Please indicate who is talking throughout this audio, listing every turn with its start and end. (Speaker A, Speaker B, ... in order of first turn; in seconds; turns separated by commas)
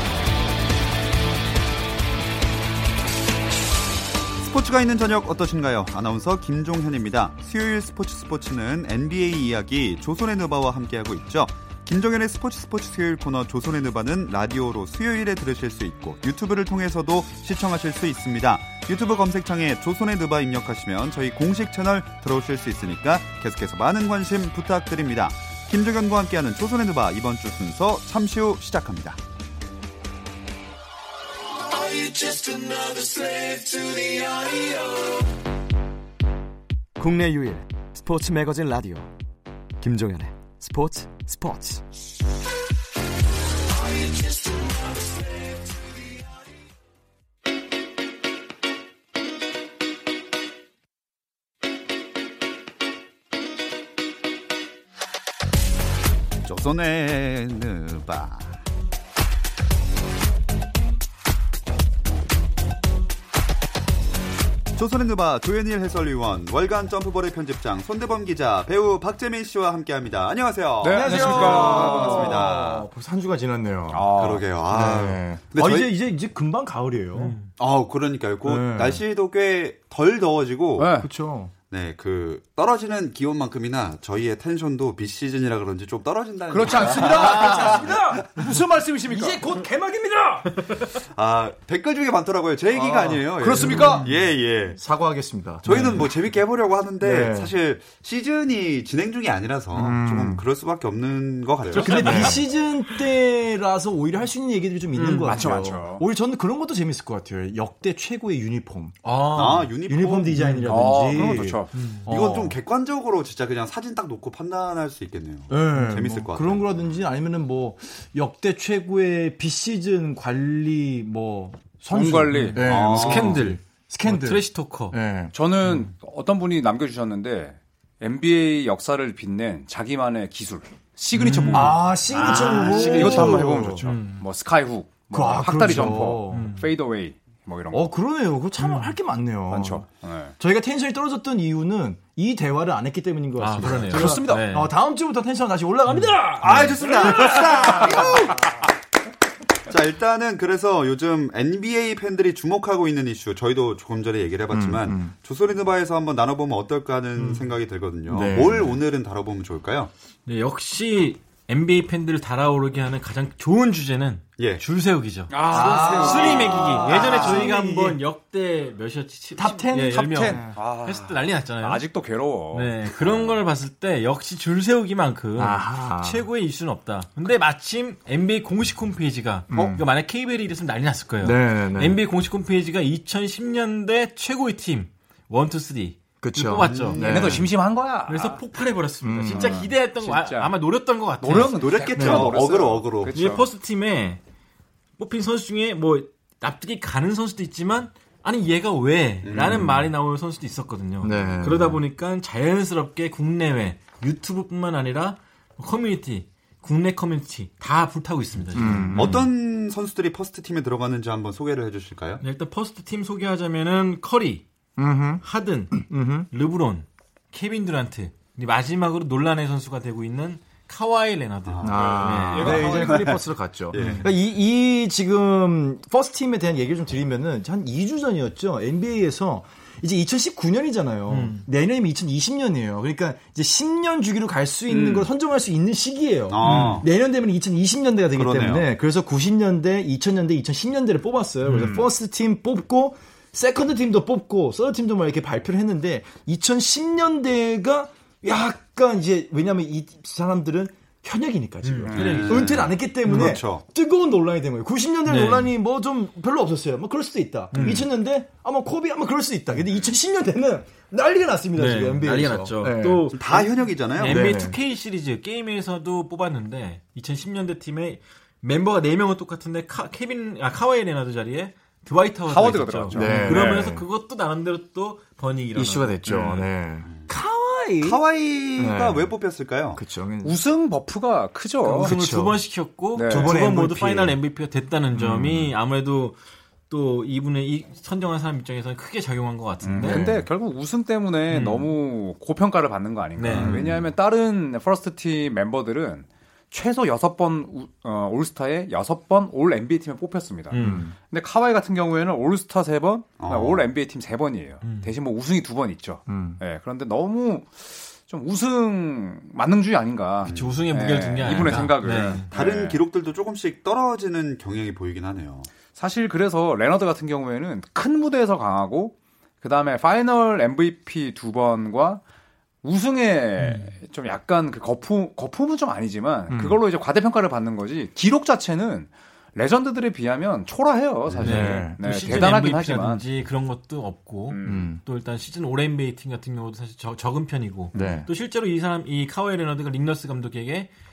Speaker A: 4.4-29.2, Speaker B: 31.7-35.3, Speaker B: 37.0-39.1, Speaker C: 37.2-37.5, Speaker B: 39.8-41.8, Speaker C: 39.8-40.2, Speaker B: 43.7-46.2, Speaker A: 56.4-58.6, Speaker A: 64.8-72.9, Speaker D: 70.8-72.6, Speaker C: 70.8-74.1, Speaker D: 73.9-74.5, Speaker A: 74.1-75.9, Speaker C: 74.7-77.4, Speaker E: 77.2-77.5, Speaker A: 77.6-80.9, Speaker C: 78.5-79.0, Speaker D: 80.8-81.1, Speaker C: 81.0-81.5, Speaker A: 81.7-88.5, Speaker D: 86.5-89.4, Speaker C: 86.7-88.3, Speaker C: 89.1-90.7, Speaker A: 91.1-94.8, Speaker C: 92.7-94.1, Speaker D: 93.4-94.1, Speaker C: 94.7-96.1, Speaker A: 95.7-102.3, Speaker D: 95.7-96.0, Speaker C: 97.0-97.5, Speaker C: 99.7-100.5, Speaker D: 101.7-102.5, Speaker C: 101.8-112.6, Speaker E: 101.9-102.4, Speaker E: 105.0-105.4, Speaker D: 105.2-106.0, Speaker E: 109.0-109.7, Speaker A: 109.3-110.6, Speaker E: 110.4-110.8, Speaker D: 110.7-111.8, Speaker E: 111.7-112.1, Speaker A: 112.1-116.6, Speaker C: 115.5-125.3, Speaker D: 121.9-123.2, Speaker E: 122.3-125.0, Speaker A: 122.6-123.4, Speaker D: 125.3-137.9, Speaker E: 131.1-134.2, Speaker C: 131.5-133.9, Speaker C: 135.1-136.5, Speaker E: 136.3-136.7, Speaker C: 137.7-139.9, Speaker E: 138.6-138.9, Speaker D: 139.5-140.3, Speaker C: 140.4-148.5, Speaker E: 143.4-144.7, Speaker D: 143.6-144.5, Speaker E: 145.9-146.2, Speaker A: 146.4-148.6, Speaker E: 146.8-147.7, Speaker D: 147.3-148.1, Speaker A: 149.7-159.9, Speaker C: 154.5-155.1, Speaker E: 157.2-157.5, Speaker C: 158.1-158.8, Speaker E: 160.3-171.8, Speaker A: 164.4-164.6, Speaker D: 165.3-167.5, Speaker C: 165.5-168.0, Speaker C: 169.4-170.5, Speaker D: 169.9-173.4, Speaker E: 172.5-187.4, Speaker C: 175.4-176.3, Speaker C: 179.5-179.8, Speaker C: 181.2-182.0, Speaker C: 186.2-187.5, Speaker A: 186.6-187.1, Speaker D: 187.0-188.4, Speaker E: 188.1-191.7, Speaker C: 189.0-189.7, Speaker D: 189.3-190.6, Speaker D: 191.2-193.5, Speaker A: 191.6-193.1, Speaker C: 191.9-192.4, Speaker E: 193.1-194.2, Speaker E: 195.0-209.1, Speaker A: 199.2-199.7, Speaker C: 201.0-201.8, Speaker C: 208.5-209.2, Speaker A: 208.9-212.2, Speaker E: 212.2-214.4, Speaker C: 214.8-216.3, Speaker E: 215.2-222.8, Speaker A: 221.5-223.2, Speaker C: 221.6-263.1, Speaker D: 221.8-223.2, Speaker A: 223.7-224.1, Speaker E: 223.7-224.1, Speaker E: 231.1-231.5, Speaker D: 234.8-235.1, Speaker A: 236.3-236.9, Speaker E: 236.4-236.8, Speaker A: 238.2-238.7, Speaker E: 241.4-241.8, Speaker D: 241.5-241.9, Speaker E: 251.6-253.3, Speaker D: 251.9-252.5, Speaker A: 251.9-253.6, Speaker E: 255.1-255.5, Speaker E: 257.5-257.9, Speaker E: 261.6-276.0, Speaker A: 263.1-264.3, Speaker C: 264.0-264.6, Speaker D: 272.3-273.7, Speaker C: 272.9-273.9, Speaker C: 275.5-278.0, Speaker D: 276.1-276.5, Speaker A: 277.8-279.8, Speaker C: 278.6-279.1, Speaker C: 279.8-280.4, Speaker D: 280.2-281.9, Speaker E: 281.6-286.2, Speaker C: 281.8-282.4, Speaker D: 282.9-283.5, Speaker C: 283.1-284.2, Speaker C: 285.0-285.5, Speaker E: 286.7-290.1, Speaker D: 289.6-312.8, Speaker C: 289.8-290.3, Speaker E: 291.3-291.7, Speaker E: 293.2-293.6, Speaker A: 293.3-293.9, Speaker C: 293.4-293.7, Speaker E: 300.5-300.9, Speaker C: 300.5-301.0, Speaker A: 303.2-303.6, Speaker E: 304.6-304.9, Speaker C: 306.1-306.4, Speaker A: 310.2-310.6, Speaker E: 310.3-312.3, Speaker A: 312.3-315.5, Speaker D: 315.8-322.0, Speaker D: 322.6-333.0, Speaker E: 323.4-323.7, Speaker C: 326.3-326.6, Speaker C: 331.2-331.8, Speaker E: 331.2-340.7, Speaker D: 334.3-334.7, Speaker C: 334.4-334.8, Speaker C: 337.7-338.1